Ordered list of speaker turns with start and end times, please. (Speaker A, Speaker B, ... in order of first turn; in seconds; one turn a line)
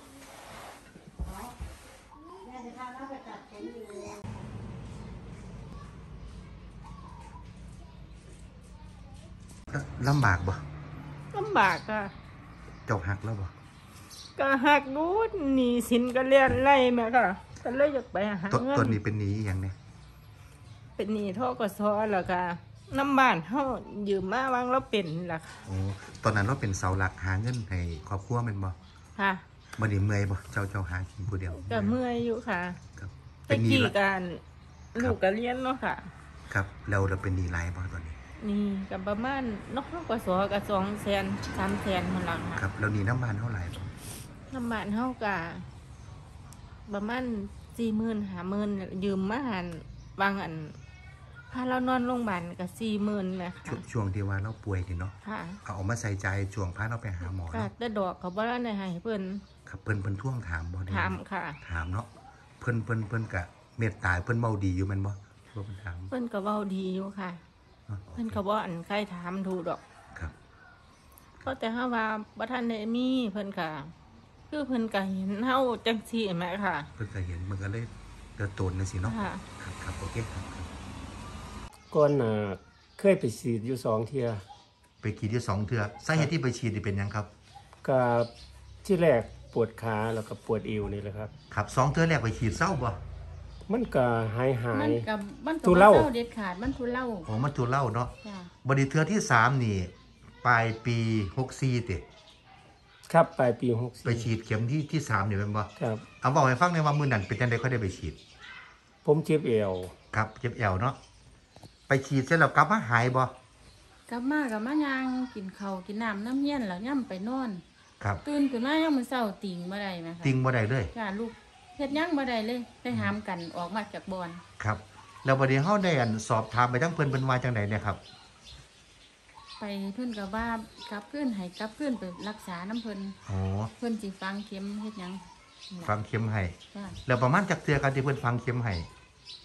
Speaker A: 9.7-10.6
Speaker B: 11.3-12.1
Speaker A: 12.8-13.5
Speaker B: 14.4-19.0
Speaker A: 18.5-19.7
Speaker B: 21.0-25.6
Speaker A: 25.6-28.8
Speaker B: 29.1-29.4
Speaker A: 29.8-32.0
Speaker B: 31.5-32.8
Speaker A: 33.0-33.9
Speaker B: 33.5-34.4
Speaker B: 34.9-36.1
Speaker A: 36.5-38.2
Speaker B: 38.4-42.6
Speaker A: 42.5-43.9
Speaker B: 44.5-45.7
Speaker B: 46.9-50.8
Speaker B: 51.5-53.8
Speaker A: 53.6-57.7
Speaker B: 55.2-55.6
Speaker B: 57.2-59.4
Speaker A: 59.6-62.1
Speaker B: 60.9-61.6
Speaker A: 62.6-66.1
Speaker B: 66.1-67.4
Speaker A: 67.9-68.4
Speaker B: 68.1-69.8
Speaker B: 71.4-73.9
Speaker B: 74.5-76.9
Speaker A: 77.0-80.7
Speaker B: 79.0-79.4
Speaker C: 81.9-84.4
Speaker A: 85.0-87.3
Speaker C: 87.8-88.3
Speaker C: 88.8-91.3
Speaker A: 91.5-93.0
Speaker C: 93.7-95.1
Speaker D: 94.7-97.3
Speaker C: 95.6-96.1
Speaker A: 97.2-98.1
Speaker D: 98.2-98.5
Speaker A: 98.6-102.0
Speaker C: 103.1-104.3
Speaker A: 104.0-105.7
Speaker C: 105.8-106.0
Speaker A: 106.2-108.2
Speaker C: 109.0-109.9
Speaker A: 110.1-111.0
Speaker A: 111.9-113.3
Speaker D: 114.1-117.6
Speaker D: 118.2-120.3
Speaker A: 120.2-120.9
Speaker D: 120.9-124.4
Speaker A: 124.6-128.0
Speaker D: 129.6-133.2
Speaker A: 133.2-133.7
Speaker D: 133.8-135.9
Speaker A: 135.8-138.9
Speaker D: 136.7-137.0